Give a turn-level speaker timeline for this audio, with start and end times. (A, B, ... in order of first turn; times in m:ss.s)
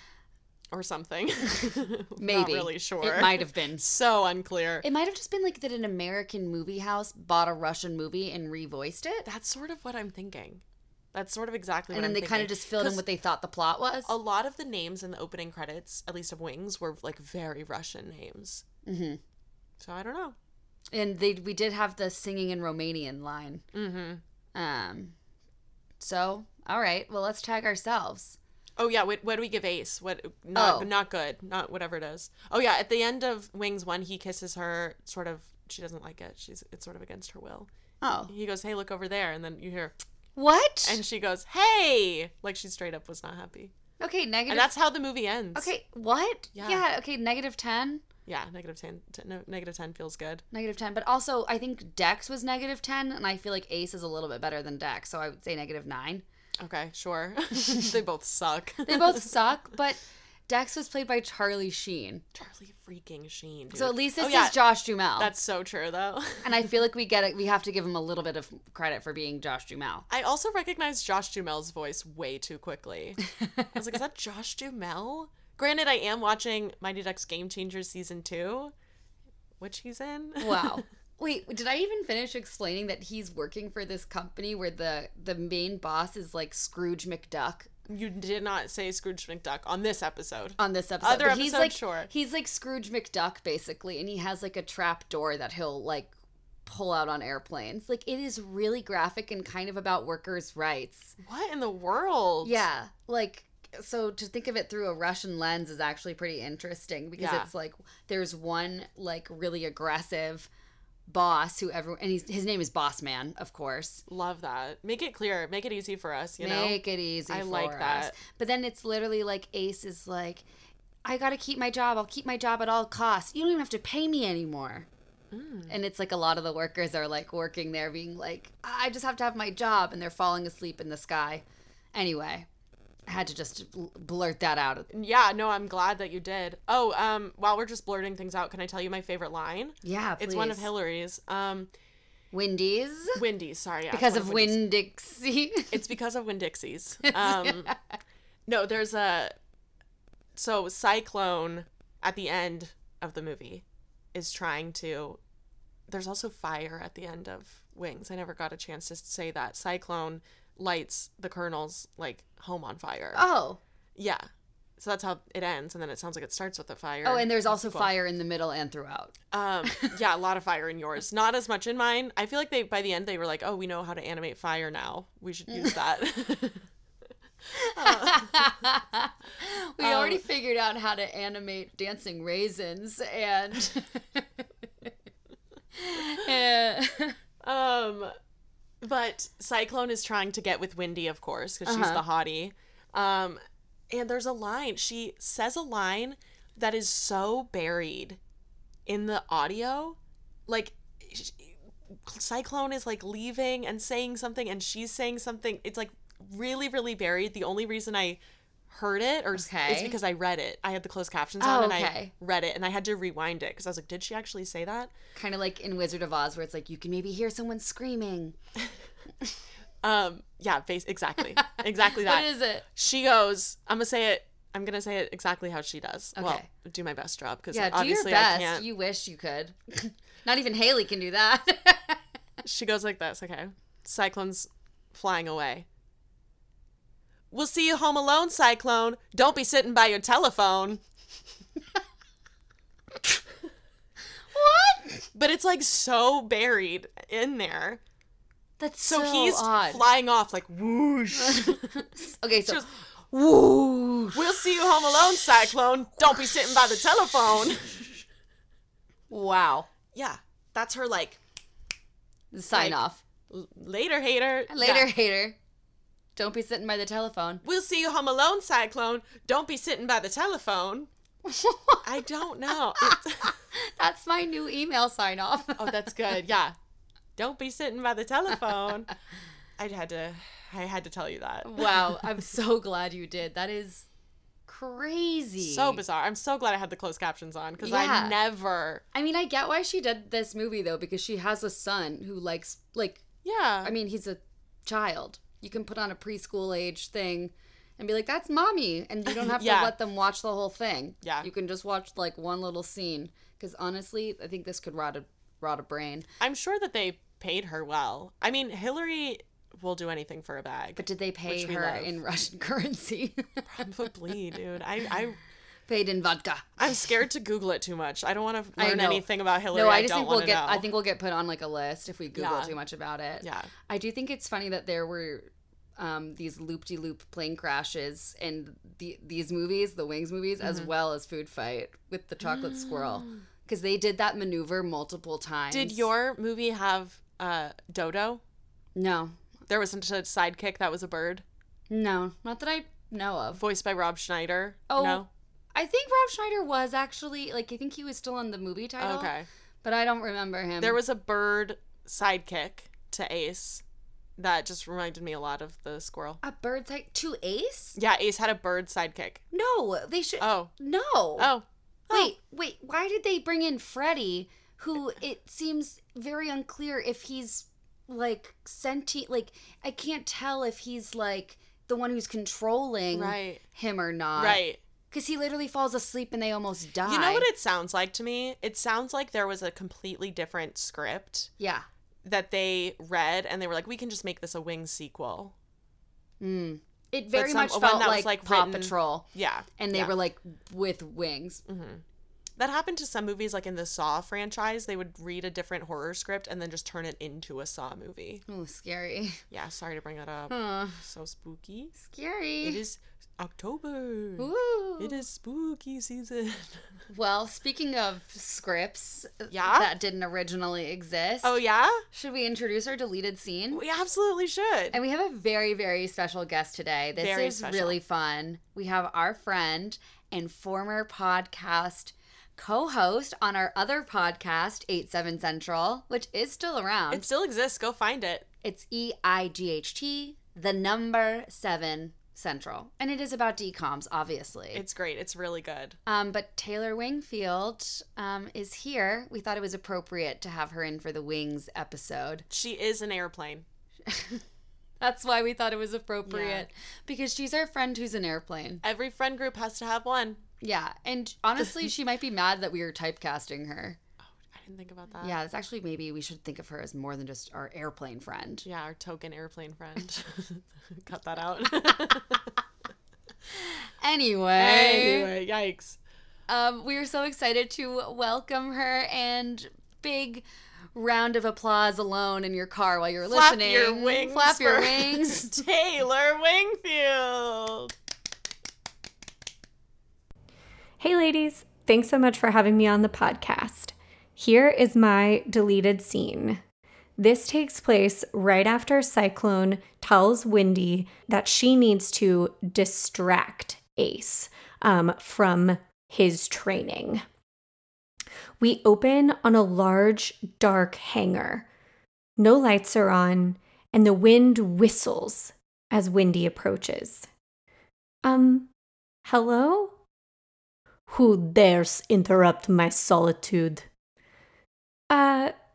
0:00.7-0:04.9 A
0:02.2-0:03.8 B
0:04.8-0:09.3 B
0:09.2-0:13.0 A
0:11.9-0:14.1 B
0:14.0-0:18.6 A
0:18.8-0:19.2 B
0:19.8-0:20.4 A
0:20.9-0:23.6 B
0:23.7-0:24.2 A
0:24.5-0:25.1 B
0:26.0-0:28.4 B
0:28.8-0:37.7 A
0:30.6-0:30.9 B
0:38.0-0:38.3 B
0:38.3-0:40.0 A
0:40.4-0:41.0 B
0:40.8-0:43.7 A
0:44.0-0:44.7 B
0:44.5-0:45.7 A
0:45.6-0:48.0 B
0:46.6-0:46.8 A
0:48.3-0:50.4 A
0:50.5-0:56.2 B
0:56.6-0:59.3 A
0:58.9-1:02.2 B
1:02.3-1:04.6 A
1:03.7-1:05.3 B
1:05.2-1:06.6 A
1:06.4-1:10.0 B
1:10.1-1:13.2 A
1:13.7-1:18.7 A
1:19.6-1:20.8 A
1:20.4-1:27.7 B
1:27.9-1:32.1 A
1:30.6-1:36.1 B
1:36.6-1:41.2 B
1:41.2-1:42.6 A
1:42.4-1:50.5 B
1:47.2-1:47.5 A
1:51.1-1:54.0 B
1:54.1-1:58.1 A
1:56.4-2:00.4 B
2:01.0-2:04.9 B
2:05.3-2:05.7 A
2:05.7-2:12.5 B
2:13.1-2:14.9 B
2:14.9-2:21.7 A
2:19.8-2:20.7 B
2:22.3-2:23.2 B
2:23.1-2:24.6 A
2:23.9-2:25.8 B
2:25.7-2:27.7 A
2:27.1-2:28.0 B
2:28.5-2:29.3 A
2:30.4-2:35.2 A
2:35.9-2:43.2 A
2:43.1-2:43.6 B
2:44.0-2:44.3 A
2:44.8-2:47.9 A
2:47.0-2:49.1 B
2:49.3-2:56.6 A
2:55.5-2:55.8 B
2:57.6-3:04.9 B
2:57.6-2:58.5 A
2:59.8-3:00.2 A
3:05.7-3:07.2 B
3:07.4-3:08.1 A
3:08.8-3:18.2 A
3:11.6-3:12.0 B
3:18.9-3:34.9 A
3:29.3-3:30.0 B
3:31.4-3:32.1 B
3:35.1-3:38.4 B
3:39.8-3:48.6 A
3:41.9-3:42.6 B
3:46.2-3:46.5 B
3:47.5-3:52.0 B
3:52.4-3:55.6 A
3:57.3-4:00.8 A
4:04.3-4:05.1 B
4:05.1-4:07.8 A
4:08.6-4:09.8 B
4:08.8-4:11.9 A
4:11.3-4:14.4 B
4:12.4-4:12.7 A
4:14.1-4:18.0 A
4:19.1-4:19.7 B
4:19.9-4:21.2 A
4:22.3-4:23.0 B
4:22.5-4:24.9 A
4:24.5-4:25.4 B
4:26.2-4:27.4 B
4:27.4-4:30.9 A
4:31.2-4:32.0 B
4:31.8-4:33.4 A
4:32.8-4:35.8 B
4:35.6-4:36.6 A
4:37.2-4:38.9 A
4:39.6-4:42.0 A
4:41.4-4:43.9 B
4:44.5-4:45.8 B
4:45.4-4:48.8 A
4:47.6-4:48.1 B
4:48.9-4:53.0 B
4:53.2-4:53.7 A
4:53.6-5:06.1 B
4:59.1-4:59.7 A
5:01.0-5:01.3 A
5:06.2-5:12.0 A
5:10.8-5:13.6 B
5:13.4-5:15.2 A
5:15.7-5:16.5 B
5:16.6-5:20.6 A
5:18.6-5:35.9 B
5:22.1-5:22.6 A
5:23.2-5:23.5 A
5:30.4-5:30.7 A
5:32.2-5:33.2 A
5:35.5-5:38.2 A
5:38.7-5:39.2 B
5:39.5-5:41.2 A
5:41.7-5:43.4 B
5:43.4-5:45.1 A
5:44.7-5:49.1 B
5:48.8-5:49.3 A
5:49.6-5:50.8 B
5:50.6-5:53.6 A
5:54.2-5:56.2 A
5:56.2-5:57.8 B
5:57.8-5:59.2 A
5:59.3-6:01.3 B
6:00.2-6:00.5 A
6:01.2-6:02.1 A
6:01.9-6:17.3 B
6:12.9-6:13.4 A
6:14.2-6:14.6 A
6:16.8-6:21.3 A
6:21.4-6:21.6 B
6:22.0-6:25.3 A
6:26.2-6:31.4 B
6:27.1-6:29.9 A
6:31.4-6:31.8 A
6:32.4-6:38.2 A
6:38.3-6:39.2 B
6:39.3-6:41.8 A
6:40.3-6:40.7 B
6:41.8-6:42.6 B
6:42.4-6:46.6 A
6:44.2-6:45.0 B
6:46.9-6:51.3 B
6:49.3-6:49.7 A
6:51.2-6:51.8 A
6:51.9-6:53.6 B
6:53.5-6:54.8 A
6:54.7-7:07.1 B
6:57.0-6:57.8 A
7:06.9-7:08.3 A
7:08.4-7:14.6 B
7:14.5-7:15.8 A
7:15.9-7:22.3 B
7:22.3-7:23.4 A
7:23.9-7:24.2 B
7:24.8-7:28.6 B
7:26.0-7:26.5 A
7:28.6-7:30.2 A
7:30.4-7:33.8 B
7:34.1-7:35.2 A
7:35.0-7:38.4 B
7:38.4-7:42.3 A
7:43.3-7:45.1 B
7:44.3-7:45.8 A
7:46.3-7:55.4 B
7:53.1-7:57.7 A
8:00.8-8:06.4 C
8:07.0-8:17.0 C
8:18.4-8:21.4 C
8:22.2-8:27.1 C
8:28.0-8:28.5 C
8:29.0-8:29.8 C
8:30.9-8:33.6 C
8:34.9-8:35.3 C